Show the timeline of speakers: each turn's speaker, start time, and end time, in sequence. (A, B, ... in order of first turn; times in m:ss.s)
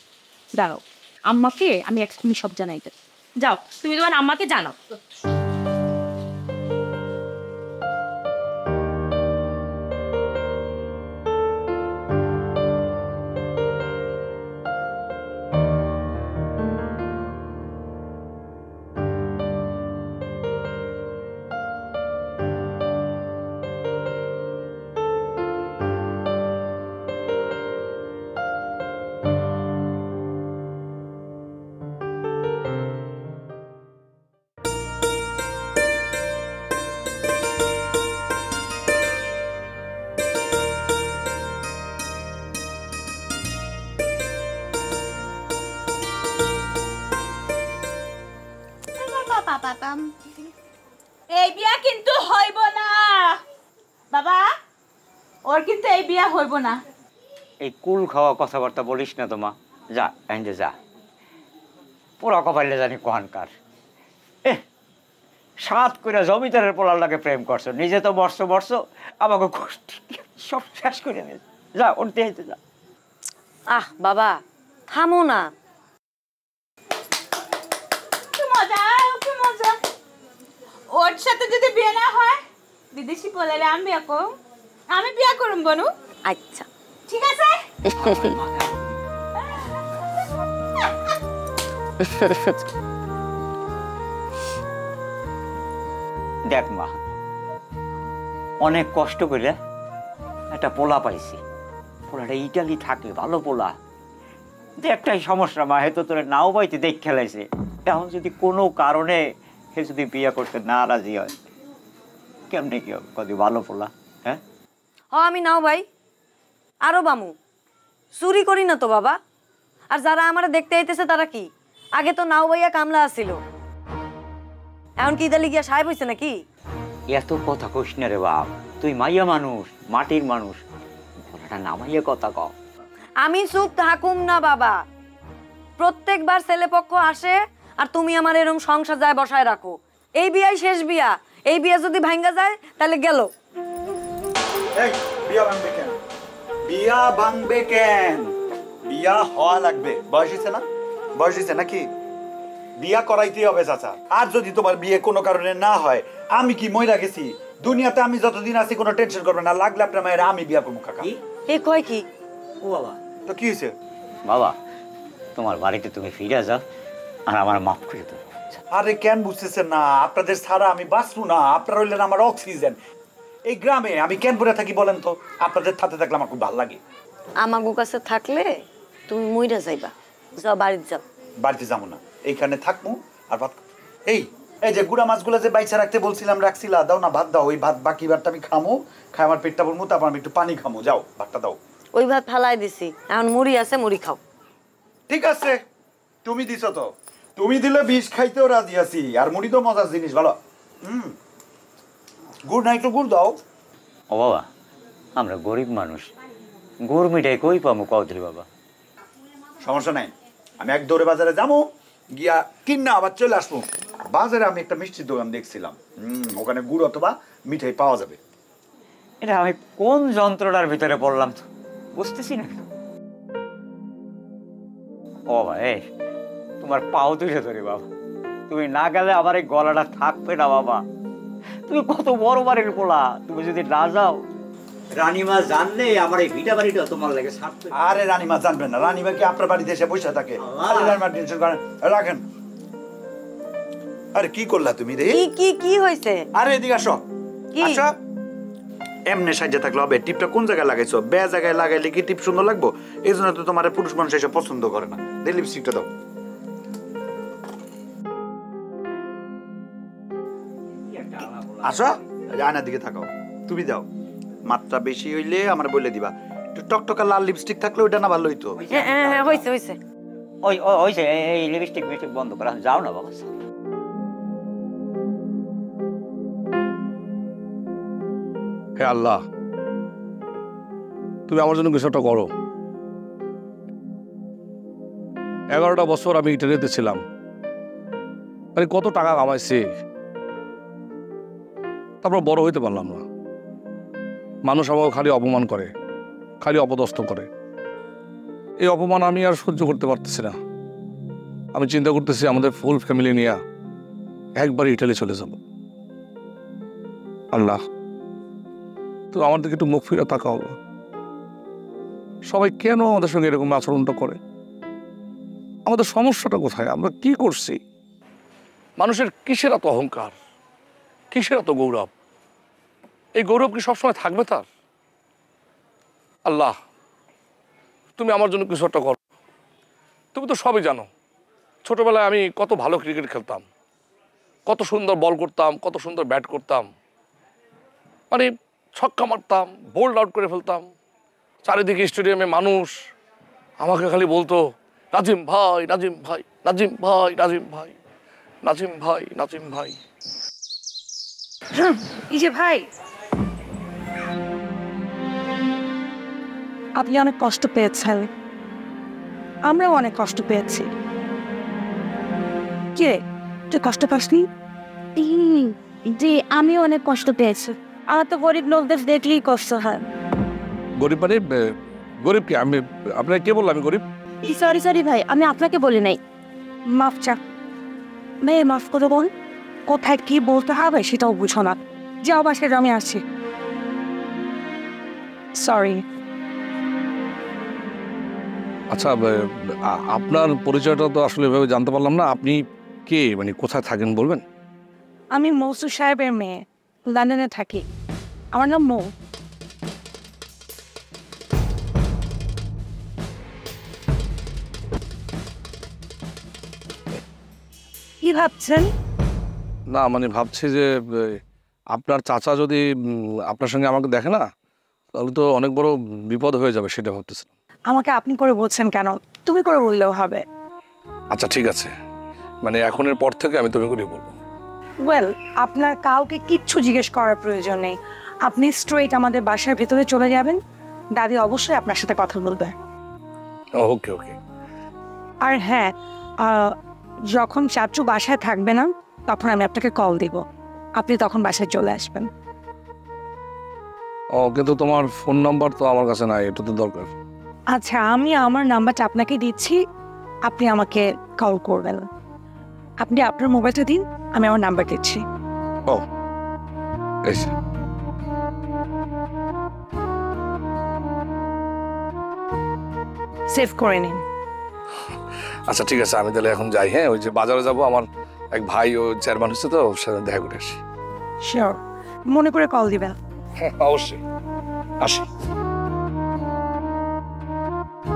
0:00.6-0:04.8 A
0:49.0-0:50.1 B
0:51.3-0:53.4 B
0:54.1-0:54.4 B
0:55.5-0:56.8 B
0:57.6-1:00.7 C
1:02.2-1:03.5 C
1:05.6-1:12.6 C
1:13.7-1:14.4 D
1:14.9-1:15.5 D
1:18.4-1:19.8 B
1:20.9-1:22.4 B
1:22.9-1:24.2 B
1:24.9-1:25.9 B
1:26.3-1:26.6 D
1:27.1-1:27.6 B
1:27.9-1:28.3 D
1:36.5-1:36.9 C
1:38.6-1:39.5 C
1:40.5-1:41.4 C
1:42.1-1:43.8 C
1:44.8-1:49.2 C
1:49.7-1:51.3 C
1:52.5-1:54.4 C
1:55.1-1:55.8 D
1:56.8-1:57.3 D
1:58.2-1:59.2 D
1:59.9-2:03.4 D
2:05.0-2:06.4 D
2:07.1-2:10.6 C
2:11.3-2:12.5 C
2:13.2-2:14.8 D
2:15.8-2:23.3 D
2:24.8-2:25.9 E
2:26.7-2:28.3 E
2:28.9-2:30.6 E
2:31.2-2:31.8 E
2:32.8-2:41.1 E
2:41.5-2:42.0 D
2:42.6-2:43.0 C
2:43.2-2:43.7 E
2:44.3-2:44.5 C
2:45.4-2:46.6 C
2:47.3-2:48.6 C
2:48.7-2:52.8 E
2:53.5-2:56.8 E
2:57.4-2:58.6 D
2:59.1-3:01.0 D
3:01.4-3:11.6 E
3:11.9-3:14.2 D
3:15.1-3:15.6 E
3:16.2-3:21.1 E
3:22.5-3:23.4 E
3:24.1-3:24.4 C
3:25.2-3:26.1 C
3:26.9-3:28.4 C
3:29.6-3:31.6 E
3:32.2-3:38.2 E
3:39.2-3:42.6 C
3:45.3-3:45.8 C
3:46.6-3:47.9 C
3:48.5-3:50.8 C
3:51.7-3:54.2 C
3:54.9-3:57.7 C
3:57.7-4:02.2 E
4:04.1-4:05.2 E
4:05.1-4:06.2 D
4:06.3-4:07.0 E
4:07.5-4:07.8 D
4:07.6-4:07.9 E
4:09.1-4:15.9 E
4:21.6-4:23.9 E
4:24.5-4:28.6 E
4:28.7-4:29.2 C
4:28.7-4:29.8 D
4:30.4-4:33.3 C
4:38.8-4:39.2 F
4:41.3-4:42.3 F
4:45.5-4:47.0 F
4:48.6-4:49.7 F
4:52.0-4:53.0 F
4:54.4-4:55.7 F
4:56.4-4:57.3 F
4:58.6-5:00.4 F
5:01.5-5:03.4 F
5:04.4-5:05.4 F
5:07.3-5:07.6 F
5:09.1-5:10.6 F
5:12.3-5:14.2 F
5:15.6-5:17.6 F
5:18.8-5:20.1 F
5:21.1-5:21.9 F
5:23.2-5:24.4 F
5:26.2-5:26.5 F
5:28.0-5:29.0 F
5:30.1-5:30.9 F
5:31.6-5:33.4 F
5:34.5-5:36.7 F
5:38.1-5:40.6 F
5:41.4-5:42.7 F
5:43.6-5:44.4 F
5:44.9-5:47.7 F
5:48.4-5:49.8 F
5:51.6-5:52.6 G
5:56.8-5:58.1 G
5:59.5-6:00.7 G
6:02.8-6:04.2 G
6:05.3-6:07.4 H
6:07.9-6:09.8 G
6:10.8-6:11.2 F
6:12.0-6:13.8 F
6:14.3-6:16.0 H
6:16.7-6:17.2 G
6:18.2-6:19.1 G
6:19.7-6:23.0 G
6:25.4-6:25.8 G
6:29.7-6:34.2 F
6:35.1-6:37.6 G
6:38.3-6:38.9 G
6:48.0-6:48.7 G
6:49.7-6:51.2 F
6:51.8-6:52.6 F
6:53.3-6:54.2 F
6:54.9-6:57.3 F
6:57.7-7:00.2 G
7:01.1-7:01.7 F
7:02.4-7:04.2 F
7:04.8-7:10.4 G
7:11.0-7:12.5 G
7:13.6-7:14.2 F
7:15.2-7:16.5 G
7:17.1-7:20.2 G
7:20.8-7:22.1 G
7:24.2-7:26.9 F
7:27.5-7:29.6 G
7:30.3-7:31.9 G
7:32.8-7:35.0 G
7:37.0-7:37.3 F
7:43.3-7:44.0 G
7:45.5-7:50.6 F
7:51.2-7:51.6 G
7:52.1-7:53.0 G
7:53.4-7:54.0 F